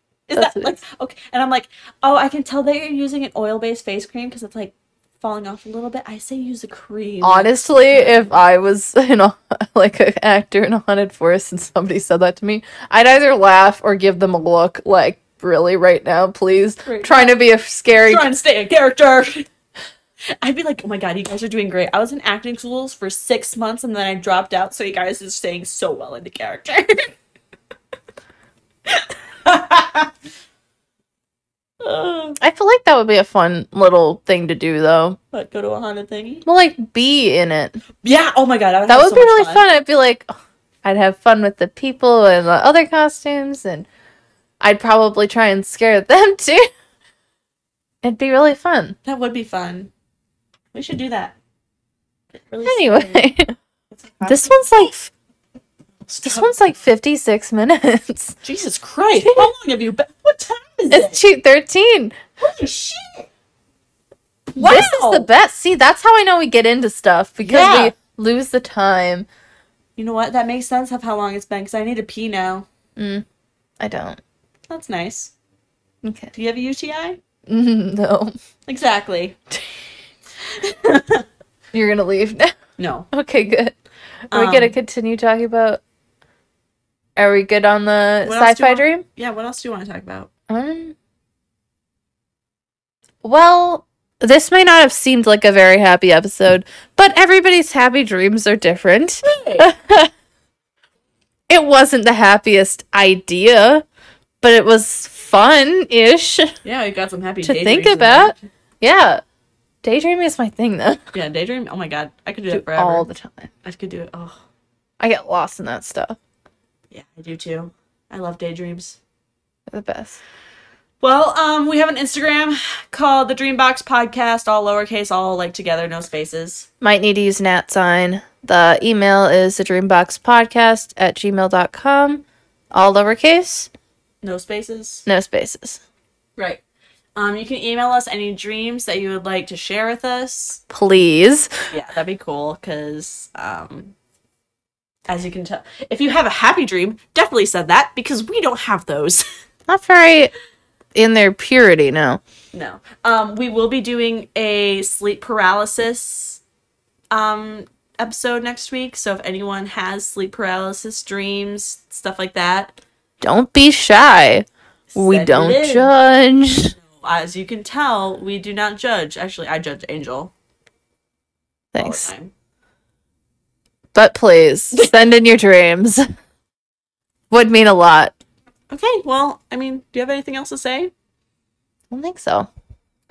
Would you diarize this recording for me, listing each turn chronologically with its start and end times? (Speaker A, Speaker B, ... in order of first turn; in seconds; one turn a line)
Speaker A: 0.3-8.2
Speaker B: 0.3-0.7
Speaker B: 7.2-18.3
Speaker A: 16.8-17.4
Speaker A: 18.0-19.5
Speaker A: 20.4-27.1
Speaker A: 28.9-30.1
Speaker A: 31.8-32.4
Speaker B: 32.4-35.2
Speaker A: 35.3-36.4
Speaker B: 36.4-37.8
Speaker A: 38.0-39.6
Speaker B: 38.9-40.3
Speaker B: 40.8-43.9
Speaker B: 44.6-46.7
Speaker B: 48.0-49.0
Speaker A: 49.0-49.9
Speaker A: 50.7-51.3
Speaker A: 52.4-53.2
Speaker B: 52.6-53.5
Speaker A: 53.9-54.8
Speaker B: 54.2-55.1
Speaker A: 56.1-56.5
Speaker B: 56.2-58.4
Speaker A: 58.4-61.2
Speaker B: 59.2-59.5
Speaker B: 60.9-62.2
Speaker A: 62.4-63.3
Speaker A: 64.5-65.3
Speaker B: 64.6-69.2
Speaker A: 67.4-67.9
Speaker A: 70.0-72.7
Speaker B: 73.0-73.2
Speaker B: 73.8-74.2
Speaker A: 74.7-75.3
Speaker B: 76.0-76.3
Speaker A: 76.3-77.2
Speaker B: 77.5-78.3
Speaker A: 78.7-79.4
Speaker A: 80.4-81.2
Speaker B: 81.7-82.5
Speaker A: 82.8-83.1
Speaker B: 83.1-83.7
Speaker A: 84.3-84.8
Speaker B: 84.3-85.8
Speaker B: 87.2-89.0
Speaker A: 88.2-90.3
Speaker B: 90.5-90.9
Speaker B: 93.2-100.1
Speaker A: 99.2-99.7
Speaker B: 101.5-103.8
Speaker B: 104.4-106.5
Speaker A: 106.6-108.4
Speaker B: 107.4-109.2
Speaker B: 109.8-111.0
Speaker A: 111.1-113.1
Speaker B: 112.5-113.5
Speaker A: 113.6-114.4
Speaker B: 115.0-116.2
Speaker A: 116.9-119.0
Speaker B: 119.7-120.2
Speaker A: 121.0-126.7
Speaker B: 126.8-133.7
Speaker A: 134.2-135.1
Speaker B: 135.1-135.8
Speaker A: 137.2-140.6
Speaker B: 140.7-141.7
Speaker A: 141.7-143.9
Speaker A: 145.1-149.2
Speaker B: 149.7-150.3
Speaker B: 150.9-152.2
Speaker A: 152.5-156.4
Speaker A: 157.1-162.8
Speaker B: 163.2-166.7
Speaker A: 164.9-165.9
Speaker A: 166.8-170.3
Speaker B: 171.7-172.1
Speaker A: 171.7-172.3
Speaker B: 173.9-176.0
Speaker B: 177.3-178.1
Speaker A: 178.7-180.9
Speaker B: 181.9-182.5